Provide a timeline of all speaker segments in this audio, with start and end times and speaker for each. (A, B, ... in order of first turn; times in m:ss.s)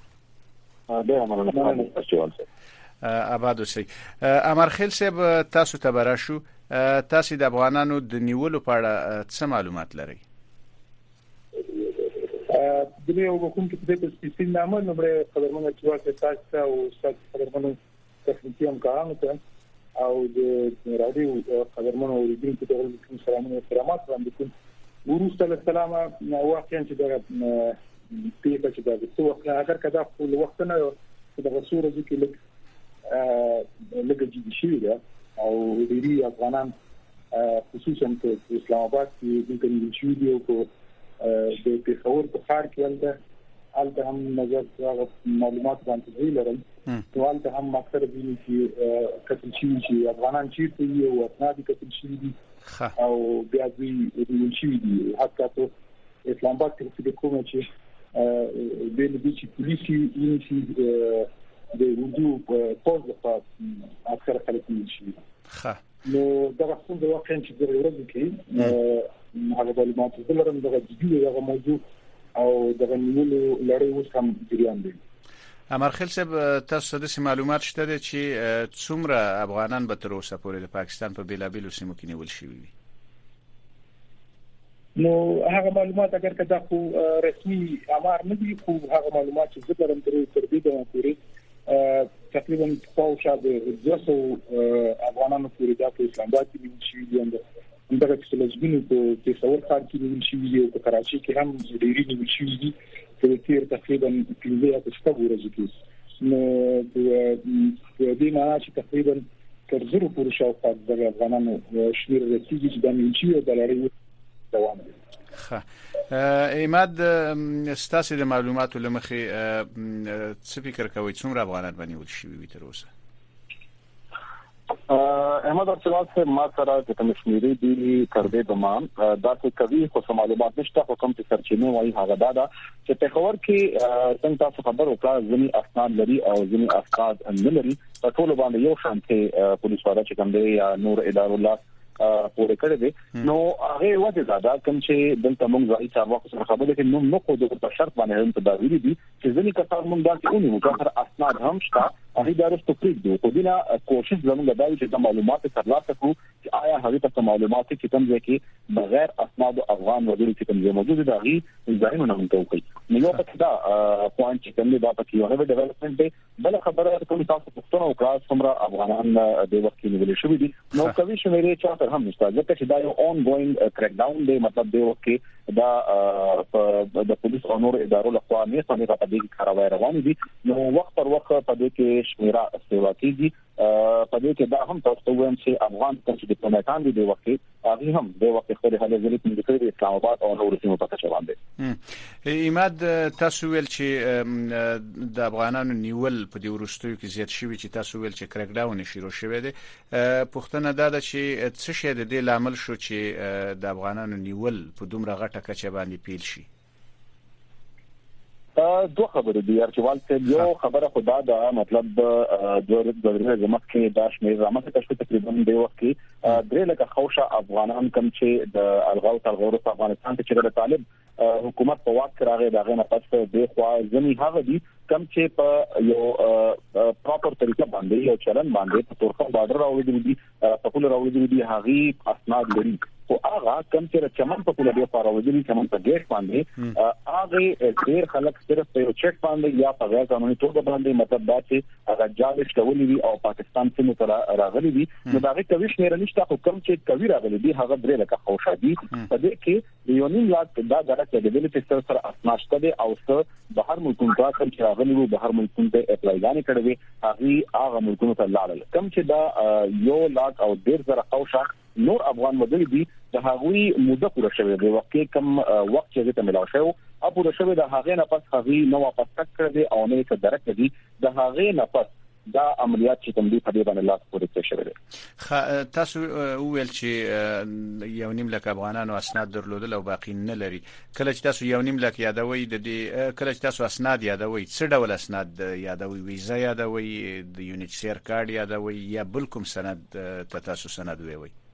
0:00.9-0:02.4 A
0:03.0-0:10.2 B
0:11.8-0:19.4 C
0:20.0-0:24.5 C
0:25.1-0:32.4 C
0:33.1-0:36.7 C
0:37.3-0:40.7 C
0:41.2-0:43.2 C
0:43.7-0:52.4 C
0:53.0-0:55.7 C
0:56.2-1:05.2 C
1:05.5-1:05.8 B
1:06.0-1:11.8 C
1:12.4-1:15.0 C
1:15.7-1:22.7 B
1:25.0-1:53.9 C
1:54.5-1:54.9 C
1:55.4-2:02.9 B
2:04.9-3:11.4 A
3:11.6-3:26.5 B
3:28.6-4:34.8 A
4:35.2-4:51.3 B